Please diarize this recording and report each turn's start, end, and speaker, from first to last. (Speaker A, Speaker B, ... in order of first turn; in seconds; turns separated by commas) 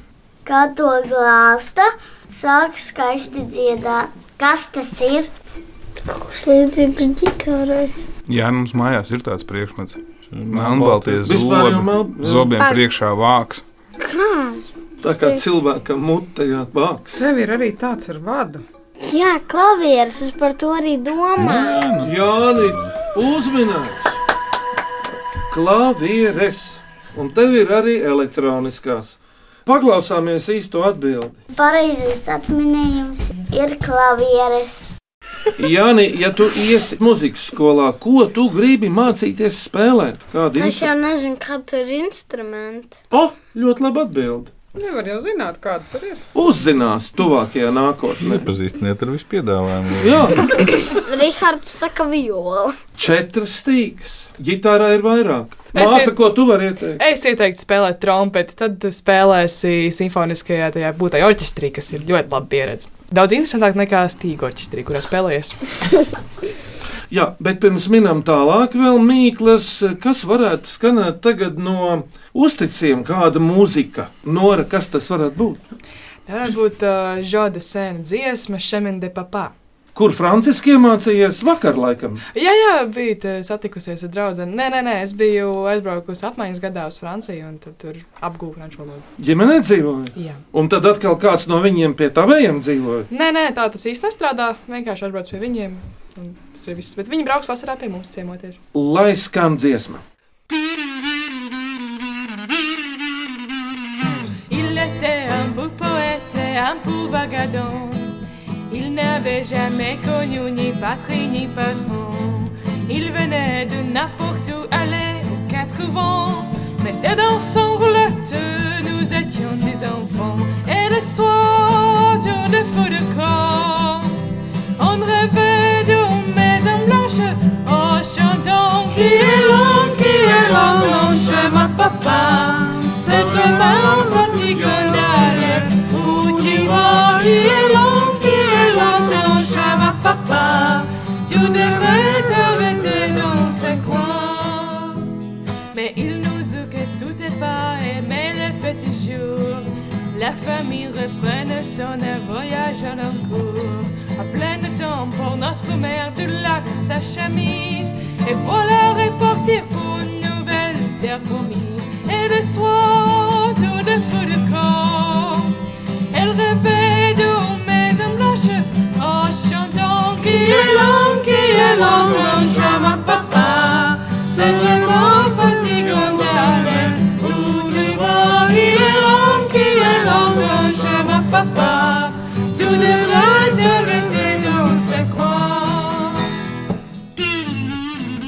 Speaker A: 0.5-5.3, Speaker B: 6.1-7.9, Speaker C: 8.3-13.6, Speaker D: 10.3-11.2, Speaker E: 11.2-12.5, Speaker B: 14.0-14.7, Speaker E: 15.0-17.2, Speaker F: 17.2-18.6, Speaker B: 19.1-21.9, Speaker D: 21.4-23.0, Speaker E: 22.0-24.2, Speaker E: 25.5-31.4, Speaker A: 31.5-35.0, Speaker E: 35.6-40.9, Speaker B: 40.6-43.0, Speaker E: 43.1-44.5, Speaker F: 44.8-46.2, Speaker E: 46.3-48.5, Speaker D: 48.3-50.6, Speaker E: 50.0-50.5, Speaker B: 50.7-52.8, Speaker E: 53.0-57.0, Speaker G: 55.7-56.2, Speaker G: 57.0-65.6, Speaker E: 67.1-75.6, Speaker G: 76.3-79.5, Speaker E: 80.0-82.2, Speaker G: 82.3-89.0, Speaker E: 89.2-93.1, Speaker G: 90.2-90.4, Speaker G: 93.1-98.6, Speaker E: 98.7-100.0, Speaker H: 104.5-108.1, Speaker H: 108.7-124.2, Speaker H: 124.8-145.1, Speaker H: 145.7-165.6, Speaker H: 166.1-186.3